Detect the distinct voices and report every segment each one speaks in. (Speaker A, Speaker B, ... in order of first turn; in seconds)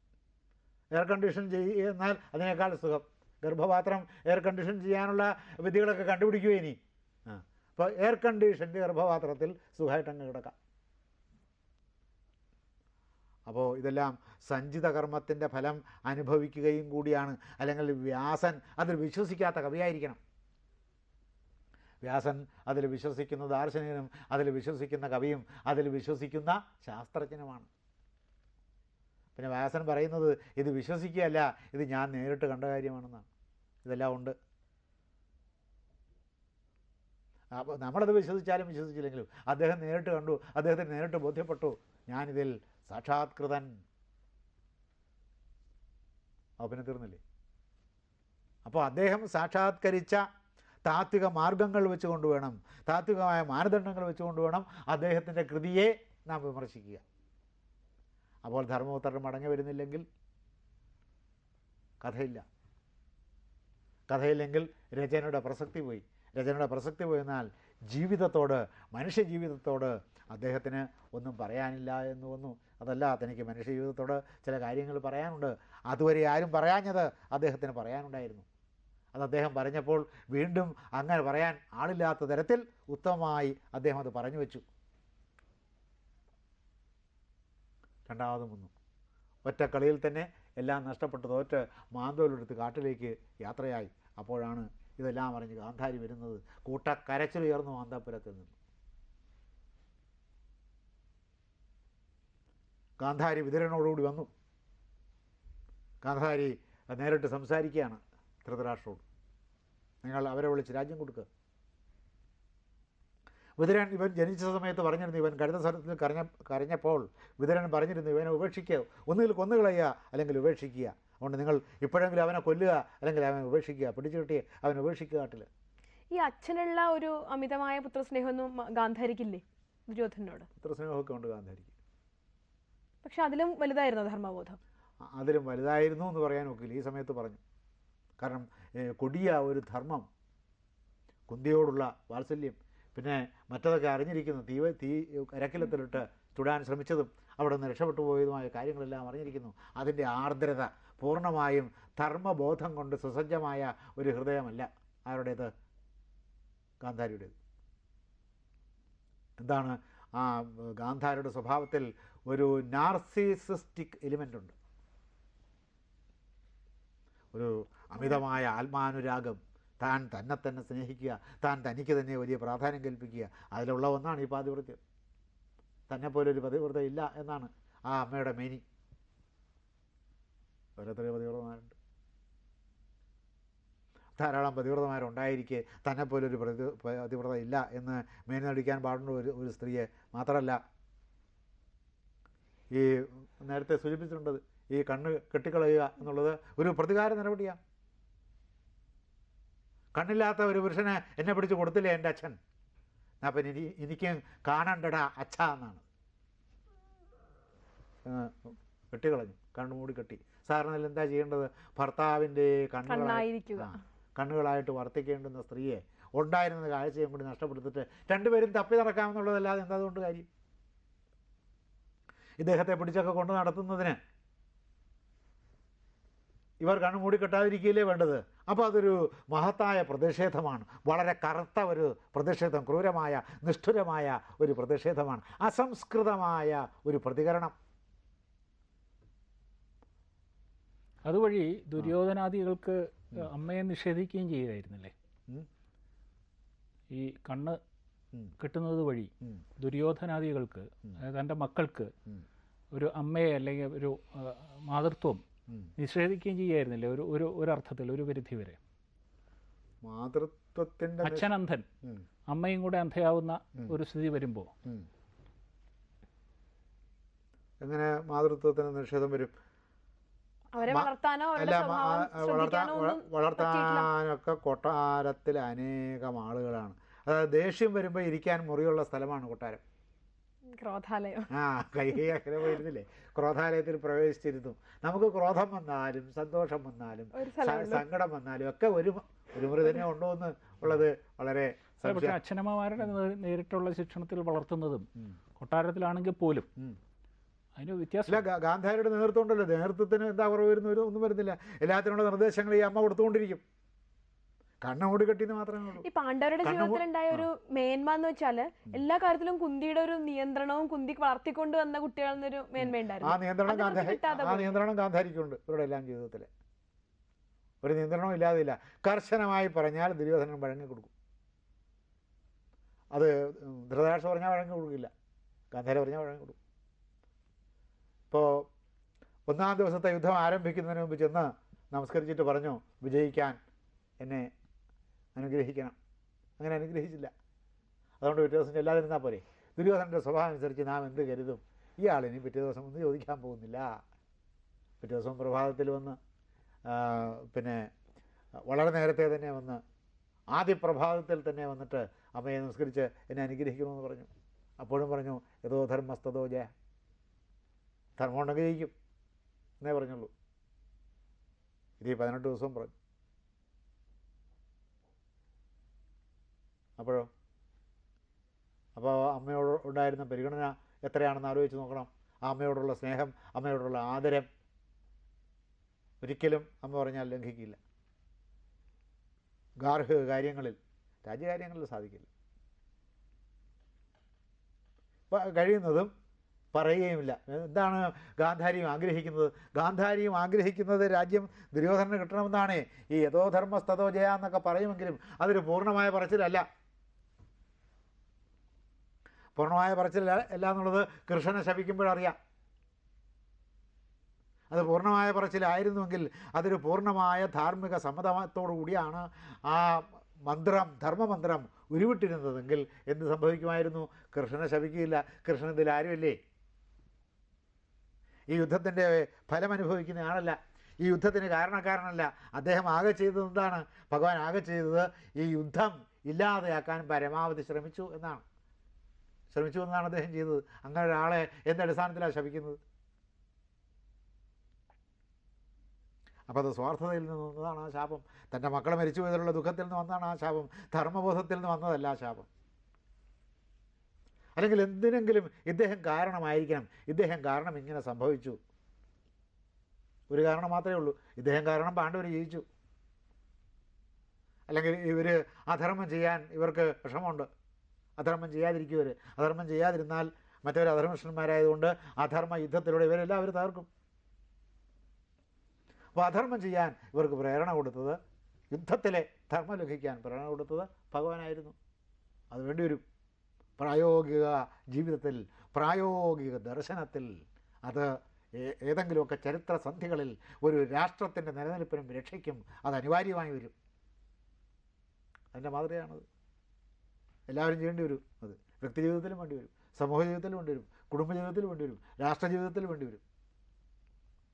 Speaker A: 0.9-10.6, 13.5-20.2, 22.0-27.7, 29.4-33.3, 33.8-34.4, 37.5-43.8, 46.6-47.2, 48.6-50.2, 50.9-57.0, 58.5-60.0, 62.0-62.4, 64.1-78.5, 79.1-84.6, 88.1-88.7, 89.5-98.5, 103.0-104.3, 106.0-109.0, 110.0-111.3, 113.6-125.5, 130.6-131.7, 135.1-137.4, 138.2-140.1, 141.3-155.5, 156.8-157.3, 159.4-164.5, 167.3-174.8, 175.9-178.6, 180.8-181.8, 184.2-190.6, 192.7-197.6, 199.9-202.4, 203.2-205.8, 208.1-220.3, 222.4-224.0, 226.6-237.6, 259.8-261.3, 267.6-269.3, 270.7-279.6, 281.3-292.2, 298.1-303.4, 304.6-305.9, 306.4-307.3, 312.6-316.3, 317.6-320.9, 322.9-324.9, 325.5-326.4, 328.1-328.5, 329.3-333.4, 334.0-334.3, 335.1-335.8, 336.4-337.1, 338.0-343.8, 344.8-346.0, 346.7-347.7, 348.5-349.6, 350.3-356.5, 358.0-358.7, 359.6-360.1, 361.8-362.7, 366.8-367.1, 368.8-374.3, 376.0-377.6, 379.6-382.1, 385.1-385.9, 386.5-396.4, 399.4-402.2, 404.5-416.2, 418.3-428.2, 429.3-432.6, 436.3-442.3, 444.4-448.4, 450.1-452.4, 454.5-457.3, 458.0-463.7, 465.9-468.0, 468.5-471.6, 472.3-472.8, 473.6-483.6, 485.3-486.1, 487.3-493.0
Speaker B: 126.1-130.5, 133.0-134.6, 212.9-213.8, 270.5-273.9, 280.5-281.3, 287.1-287.9, 305.8-314.6
Speaker C: 241.0-244.9, 246.9-247.6, 248.4-251.9, 252.7-255.2, 255.8-258.6, 261.0-261.7, 262.3-264.5, 291.8-296.5, 297.6-298.3